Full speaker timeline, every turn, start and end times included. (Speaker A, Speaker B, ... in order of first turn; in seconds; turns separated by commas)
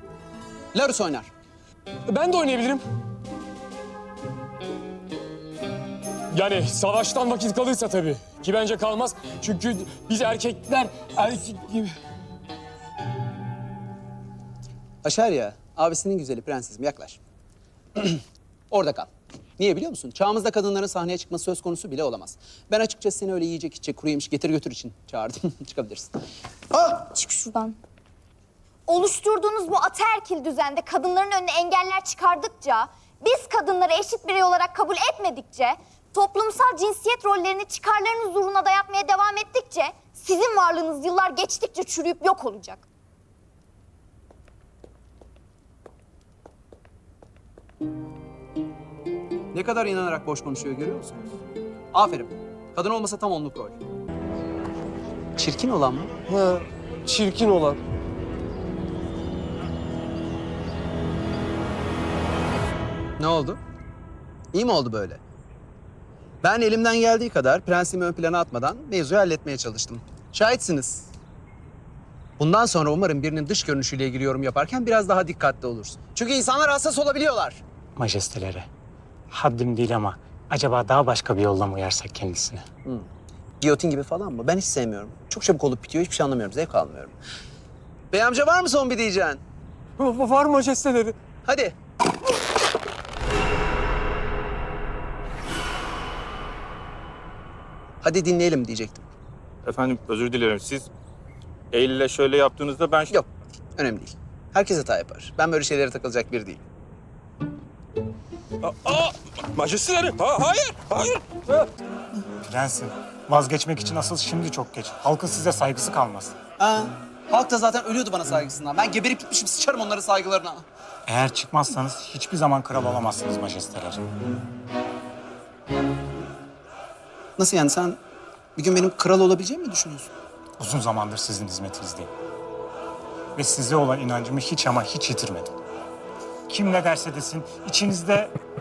Speaker A: 0.7-1.3, Speaker B: 2.1-2.8, Speaker B: 6.3-11.9, Speaker A: 15.0-17.2, Speaker A: 18.0-26.1, Speaker C: 26.9-27.8, Speaker C: 28.9-42.8, Speaker A: 49.5-51.3, Speaker A: 51.9-53.8, Speaker A: 55.4-56.1, Speaker B: 56.3-57.8, Speaker A: 63.2-63.6, Speaker A: 64.5-65.2, Speaker A: 66.4-71.1, Speaker A: 72.4-77.6, Speaker D: 78.0-78.7, Speaker D: 79.3-82.6, Speaker A: 83.6-87.1, Speaker A: 88.1-89.4, Speaker B: 90.0-91.2, Speaker A: 91.4-91.8, Speaker A: 98.0-99.0, Speaker E: 99.6-100.9, Speaker E: 101.7-103.2, Speaker A: 103.1-106.6, Speaker E: 108.6-111.2, Speaker D: 112.5-116.3, Speaker A: 116.6-120.6, Speaker D: 121.1-124.0, Speaker A: 127.4-128.0, Speaker A: 128.6-130.1, Speaker D: 130.6-132.1, Speaker D: 133.3-135.5, Speaker D: 136.5-138.3